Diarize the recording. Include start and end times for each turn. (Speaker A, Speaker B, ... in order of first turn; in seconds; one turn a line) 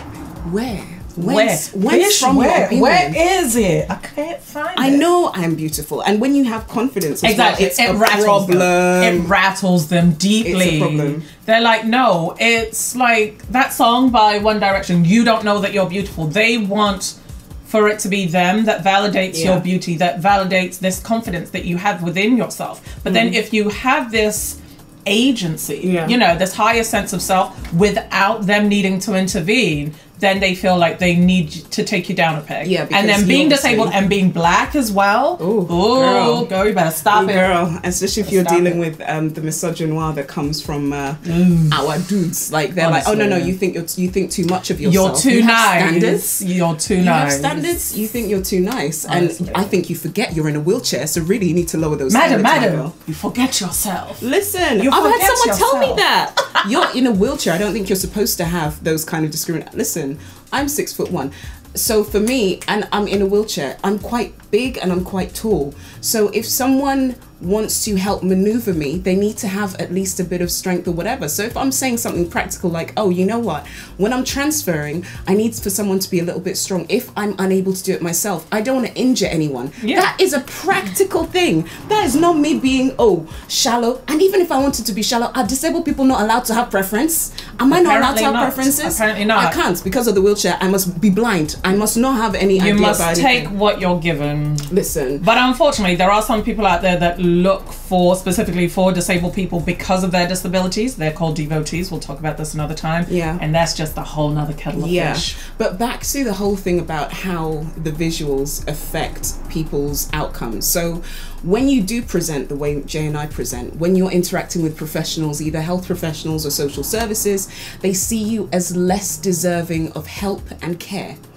Speaker A: 0.4-3.2
Speaker B: 1.2-5.0
Speaker A: 4.8-9.3
Speaker B: 7.2-37.5
Speaker A: 10.4-11.2
Speaker A: 19.3-19.7
Speaker A: 23.1-23.4
Speaker A: 25.8-26.2
Speaker A: 32.6-34.0
Speaker A: 35.4-36.5
Speaker A: 37.1-46.4
Speaker B: 38.2-38.8
Speaker B: 41.2-41.8
Speaker B: 42.8-43.5
Speaker B: 44.8-47.7
Speaker A: 47.0-52.9
Speaker B: 49.0-49.7
Speaker B: 52.1-56.8
Speaker A: 54.2-93.5
Speaker B: 79.8-80.1
Speaker B: 87.7-89.6
Speaker B: 92.5-105.3
Speaker A: 94.7-95.2
Speaker A: 103.1-103.4
Speaker A: 104.7-121.2